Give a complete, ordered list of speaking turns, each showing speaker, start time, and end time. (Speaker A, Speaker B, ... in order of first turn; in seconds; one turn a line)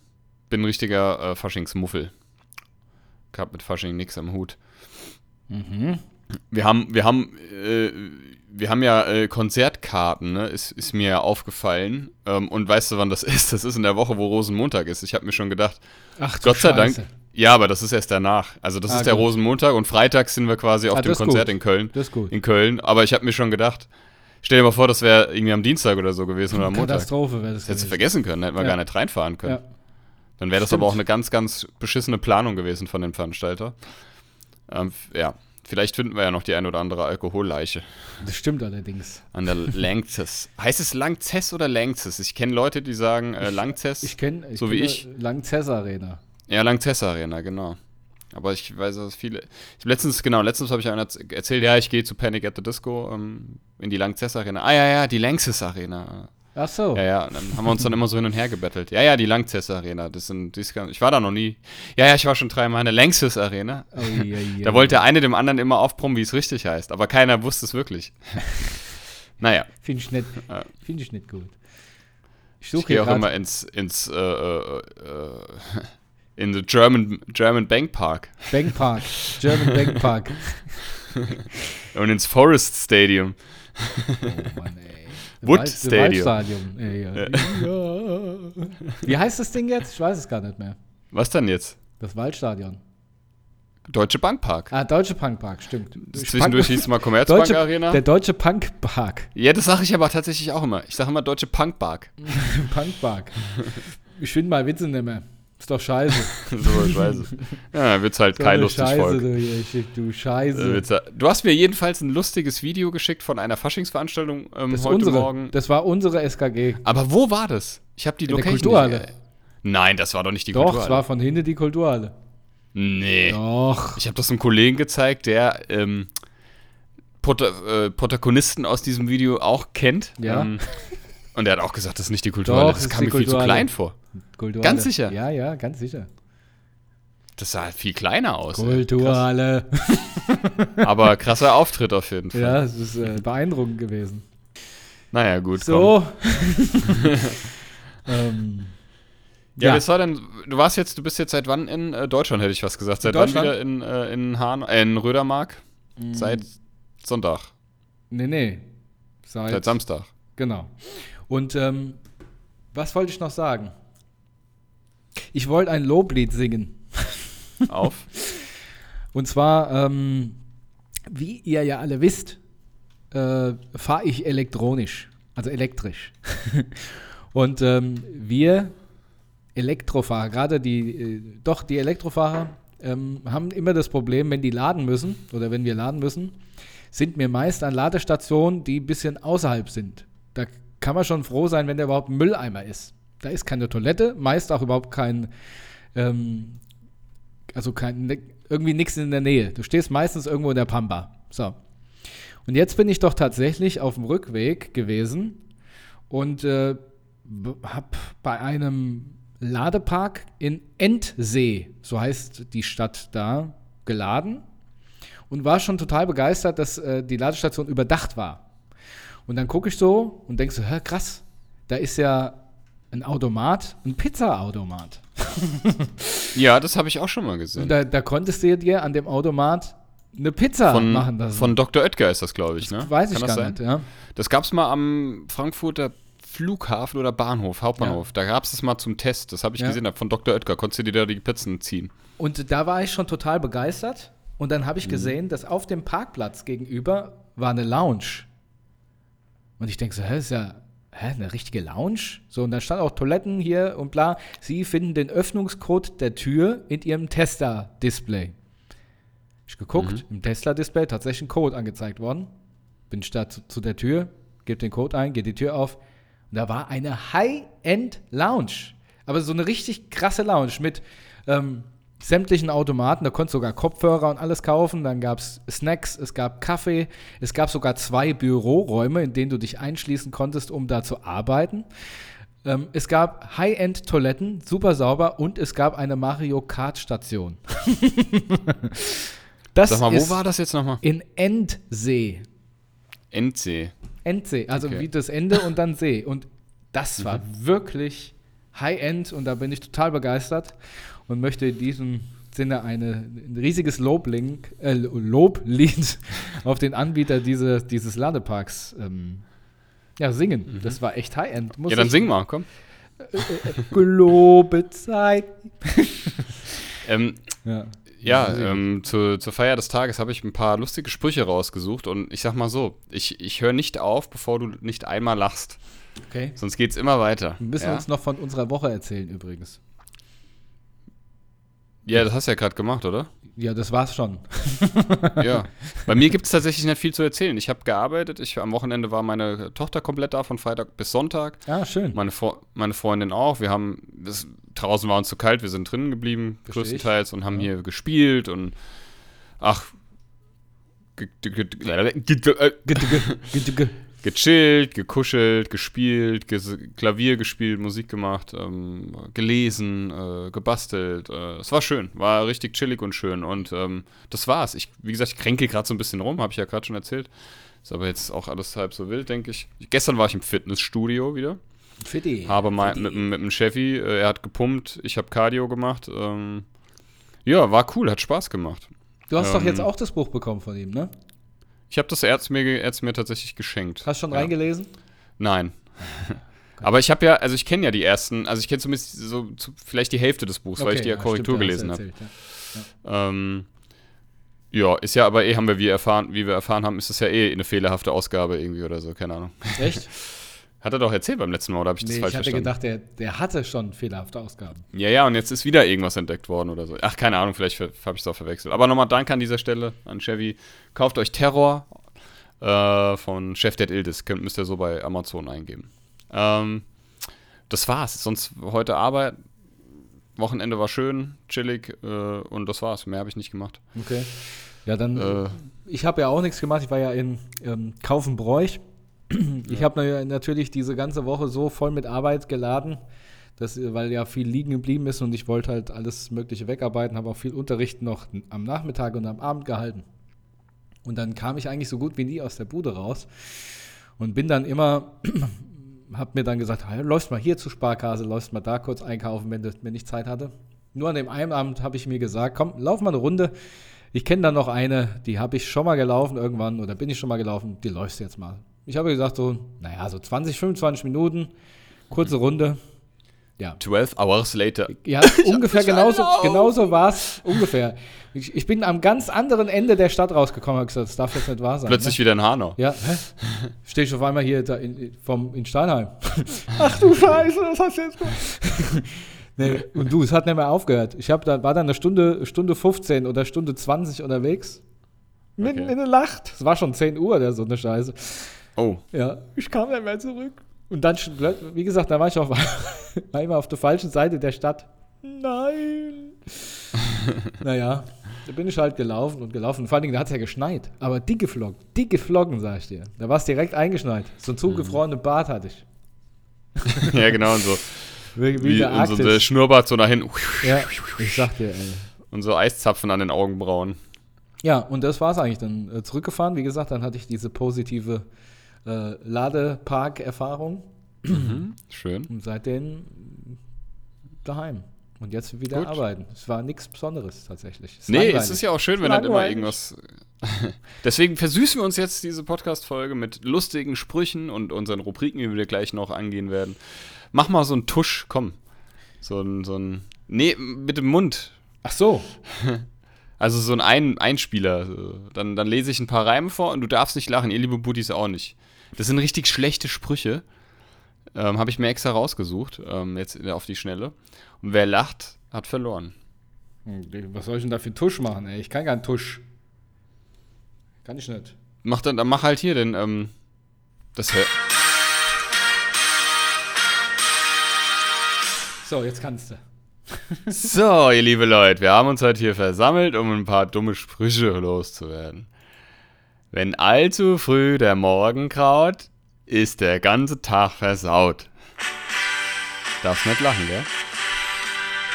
Speaker A: 0.4-2.1
Speaker A: 3.3-4.6
Speaker B: 5.5-6.0
Speaker A: 6.5-15.8
Speaker B: 16.2-17.1
Speaker A: 16.4-23.9
Speaker B: 18.9-19.3
Speaker B: 20.9-22.3
Speaker A: 24.4-29.6
Speaker B: 26.5-28.0
Speaker B: 28.5-29.6
Speaker A: 30.4-33.8
Speaker B: 30.7-30.9
Speaker A: 34.7-38.2
Speaker B: 38.2-39.2
Speaker A: 39.3-45.0
Speaker B: 44.0-46.2
Speaker A: 46.5-47.8
Speaker A: 48.3-69.8
Speaker B: 56.5-57.0
Speaker B: 63.9-65.0
Speaker B: 69.8-71.6
Speaker A: 70.4-70.7
Speaker B: 72.6-73.3
Speaker A: 72.7-78.8
Speaker B: 78.5-81.0
Speaker A: 81.9-84.3
Speaker B: 84.2-90.8
Speaker A: 85.4-86.3
Speaker A: 87.1-87.7
Speaker A: 91.1-91.8
Speaker B: 92.0-92.8
Speaker A: 93.9-94.7
Speaker B: 94.7-99.3
Speaker A: 96.1-98.0
Speaker A: 99.3-102.2
Speaker B: 102.2-107.0
Speaker A: 106.4-109.2
Speaker B: 108.3-110.8
Speaker A: 110.5-115.5
Speaker B: 114.7-116.8
Speaker A: 116.8-119.1
Speaker B: 118.3-119.1
Speaker A: 119.6-121.0
Speaker B: 120.5-122.1
Speaker A: 122.7-123.4
Speaker B: 123.2-124.0
Speaker A: 123.9-126.1
Speaker A: 127.2-134.0
Speaker B: 130.2-130.9
Speaker B: 132.4-133.7
Speaker B: 134.3-136.1
Speaker A: 134.6-135.1
Speaker A: 137.4-139.2
Speaker B: 138.5-140.7
Speaker A: 140.8-142.6
Speaker B: 142.3-144.2
Speaker A: 145.1-146.0
Speaker B: 145.6-147.1
Speaker B: 148.1-148.8
Speaker A: 149.6-157.5
Speaker B: 149.6-149.8
Speaker B: 153.0-153.5
Speaker B: 156.0-156.4
Speaker B: 158.1-158.7
Speaker B: 159.2-162.0
Speaker A: 159.5-160.1
Speaker B: 162.7-163.7
Speaker B: 165.3-168.4
Speaker A: 167.7-168.1
Speaker B: 169.1-170.4
Speaker B: 171.1-172.4
Speaker B: 173.1-178.8
Speaker B: 179.5-186.4
Speaker B: 186.9-195.3
Speaker B: 195.9-196.6
Speaker B: 197.5-201.6
Speaker B: 202.4-205.4
Speaker B: 206.1-214.4
Speaker B: 215.3-218.4
Speaker B: 219.3-222.4
Speaker B: 222.9-226.0
Speaker A: 226.3-227.7
Speaker B: 227.6-231.6
Speaker A: 230.7-233.6
Speaker B: 232.6-233.9
Speaker A: 234.1-241.9
Speaker B: 242.2-248.3
Speaker A: 244.8-245.1
Speaker B: 249.6-258.3
Speaker B: 259.5-262.3
Speaker A: 259.8-260.0
Speaker B: 262.9-265.8
Speaker B: 266.3-281.7
Speaker B: 282.4-288.9
Speaker B: 289.5-290.2
Speaker A: 289.7-290.8
Speaker B: 290.8-292.3
Speaker A: 293.1-293.7
Speaker B: 294.0-309.3
Speaker A: 294.6-294.8
Speaker B: 310.0-312.4
Speaker A: 310.5-310.8
Speaker A: 311.6-312.4
Speaker B: 313.0-316.2
Speaker A: 316.8-325.6
Speaker B: 317.4-318.7
Speaker B: 326.1-326.4
Speaker A: 326.4-327.9
Speaker B: 327.4-329.6
Speaker A: 331.8-333.1
Speaker B: 333.3-335.2
Speaker A: 335.2-348.6
Speaker B: 341.4-342.0
Speaker B: 346.4-347.5
Speaker A: 349.4-349.7
Speaker A: 350.9-353.2
Speaker B: 352.6-353.8
Speaker A: 354.0-367.1
Speaker A: 367.6-371.4
Speaker B: 371.8-373.0
Speaker A: 372.2-376.5
Speaker A: 377.2-379.7
Speaker B: 379.1-380.9
Speaker A: 381.7-384.3
Speaker B: 383.8-384.7
Speaker A: 385.2-391.8
Speaker B: 390.6-392.7
Speaker A: 392.8-393.5
Speaker A: 394.5-402.5
Speaker B: 399.6-399.9
Speaker B: 401.8-404.6
Speaker A: 404.7-411.7
Speaker A: 412.4-416.7
Speaker A: 417.5-419.3
Speaker A: 420.1-423.7
Speaker B: 423.7-432.8
Speaker A: 424.9-425.4
Speaker B: 433.4-439.8
Speaker B: 440.8-453.3
Speaker B: 453.9-461.3
Speaker B: 461.9-462.6
Speaker A: 463.6-466.7
Speaker B: 464.7-472.0
Speaker A: 471.6-472.6
Speaker B: 472.5-484.6
Speaker A: 473.2-473.5
Speaker B: 485.4-496.3
Speaker A: 485.4-485.7
Speaker A: 488.6-488.8
Speaker B: 497.3-505.6
Speaker A: 504.5-504.7
Speaker A: 506.7-511.3
Speaker B: 508.1-509.3
Speaker B: 510.4-511.9
Speaker A: 512.1-513.8
Speaker B: 514.4-518.0
Speaker B: 518.6-521.3
Speaker A: 521.1-522.1
Speaker B: 522.1-523.4
Speaker B: 524.2-529.5
Speaker A: 525.5-525.8
Speaker A: 527.9-536.6
Speaker A: 537.1-538.4
Speaker A: 539.0-541.3
Speaker B: 541.6-542.1
Speaker A: 542.3-542.6
Speaker A: 543.2-550.2
Speaker A: 551.1-555.9
Speaker B: 556.6-559.2
Speaker B: 560.8-561.3
Speaker A: 561.6-563.1
Speaker A: 563.9-564.3
Speaker B: 568.6-569.4
Speaker B: 569.9-570.4
Speaker A: 570.3-575.3
Speaker A: 576.3-581.3
Speaker A: 582.8-583.7